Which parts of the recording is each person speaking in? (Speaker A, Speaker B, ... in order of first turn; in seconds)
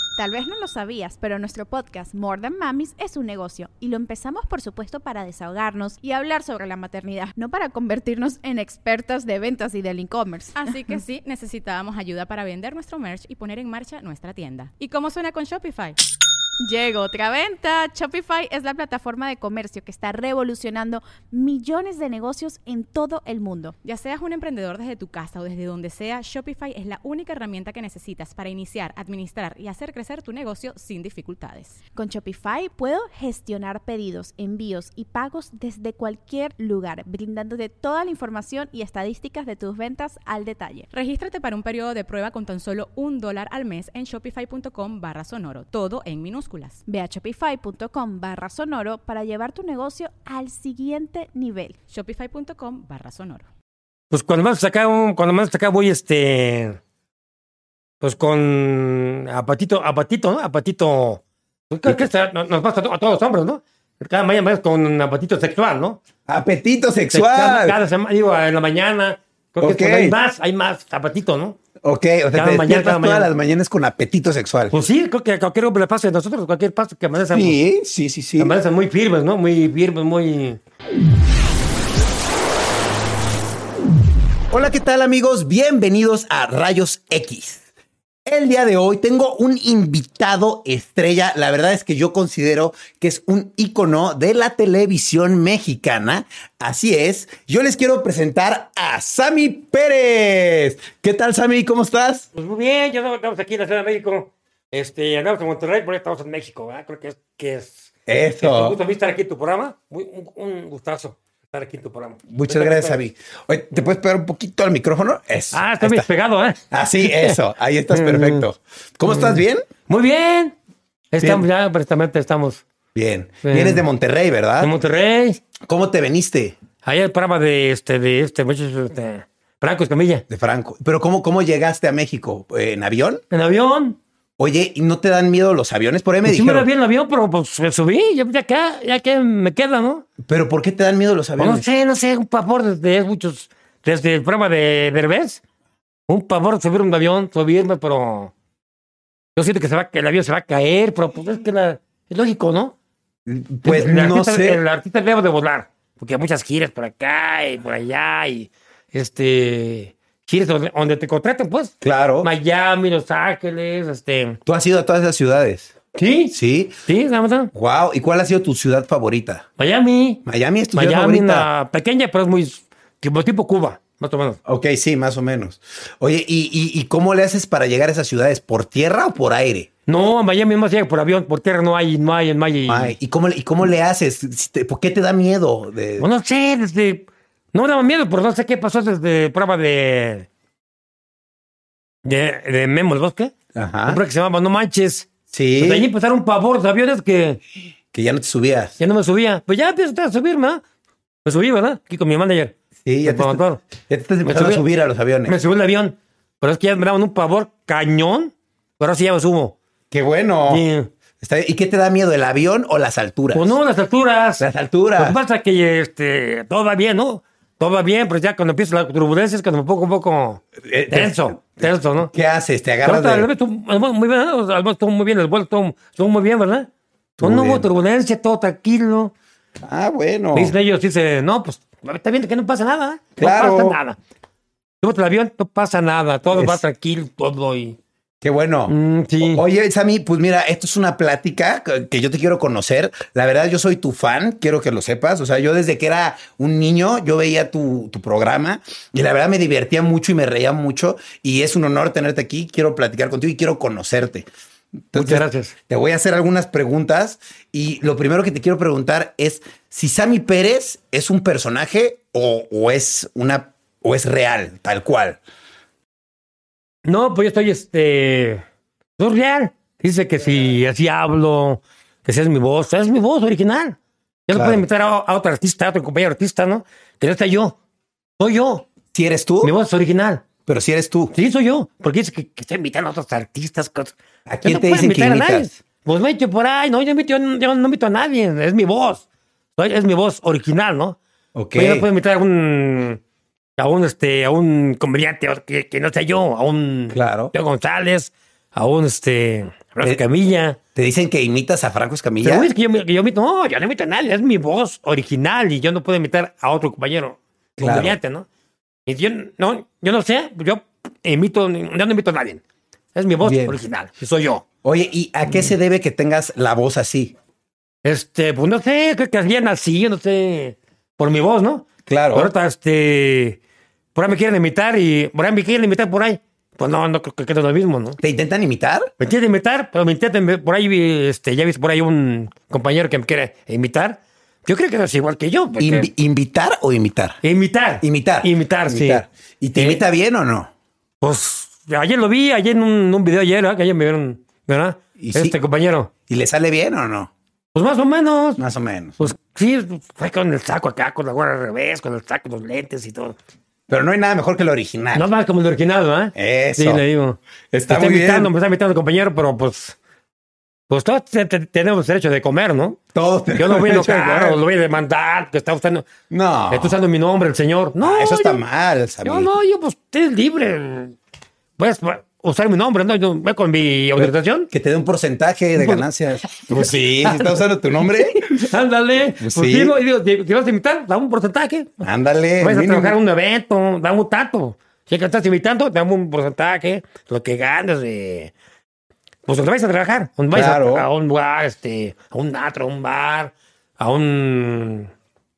Speaker A: 0.2-10.7, 16.6-23.7, 31.9-40.9, 46.9-51.8
Speaker B: 10.6-16.0, 23.8-31.8, 40.9-46.8, 51.9-53.5
Speaker C: 54.1-56.8, 58.0-66.0, 67.1-71.6, 72.3-73.3, 74.7-77.6, 78.4-80.6, 102.3-113.0, 115.5-117.4, 117.9-118.5, 119.1-120.5, 121.1-122.6, 123.4-123.8, 124.6-125.4, 126.8-130.2, 133.3-134.0, 136.2-140.0, 141.4-145.4, 146.1-148.3, 149.3-152.7, 153.6-164.4, 165.9-167.5, 169.6-170.2, 170.7-174.4, 179.9-182.9, 186.0-190.3, 192.0-193.3, 193.8-197.4, 198.8-200.6, 201.2-203.6, 204.2-204.6, 205.2-209.6, 210.5-210.9, 213.3-214.4, 215.0-222.1, 222.8-226.7, 227.2-229.1, 230.3-234.0, 234.8-237.8, 238.7-239.4, 254.9-255.5, 266.8-268.4, 269.0-277.6, 278.2-278.7, 279.4-280.2, 281.1-291.0, 291.5-293.0, 293.6-300.6, 302.2-308.3, 308.9-312.4, 312.9-314.4, 317.8-323.4, 323.9-328.0, 329.0-335.9, 337.2-339.8, 341.0-345.9, 347.5-348.4, 349.0-353.2, 354.9-359.8, 360.7-362.8, 363.3-365.9, 366.5-368.4, 369.0-370.9, 371.6-374.5, 375.6-381.8, 382.4-388.3, 389.2-394.9
Speaker D: 66.2-67.8, 69.6-70.2, 71.8-74.8, 77.3-78.5, 84.5-87.7, 88.2-102.3, 108.1-108.8, 112.3-116.1, 116.7-119.7, 121.2-121.4, 122.9-124.7, 125.6-126.5, 130.3-133.2, 134.4-136.7, 140.2-141.6, 153.2-154.6, 161.8-162.3, 164.4-165.7, 166.3-166.8, 167.5-169.4, 170.2-171.5, 174.4-179.7, 182.6-186.1, 193.5-194.0, 195.3-195.9, 197.9-198.8, 202.8-205.4, 209.9-210.7, 211.2-213.6, 214.4-215.2, 220.6-223.3, 227.2-227.7, 229.6-230.5, 233.2-233.8, 236.3-236.6, 238.2-254.3, 254.9-265.2, 274.3-274.6, 278.9-279.5, 280.4-281.1, 284.3-285.5, 291.3-291.9, 296.9-297.3, 300.7-302.5, 307.6-307.9, 313.2-313.6, 314.6-317.1, 321.9-322.3, 328.0-328.9, 335.6-337.2, 337.8-340.5, 345.0-345.4, 346.1-347.1, 348.4-349.1, 353.7-355.1, 356.1-356.8, 357.5-358.3, 362.9-364.4, 366.1-366.8, 367.8-369.3, 374.0-378.5, 379.2-379.8, 381.8-383.0, 390.3-390.9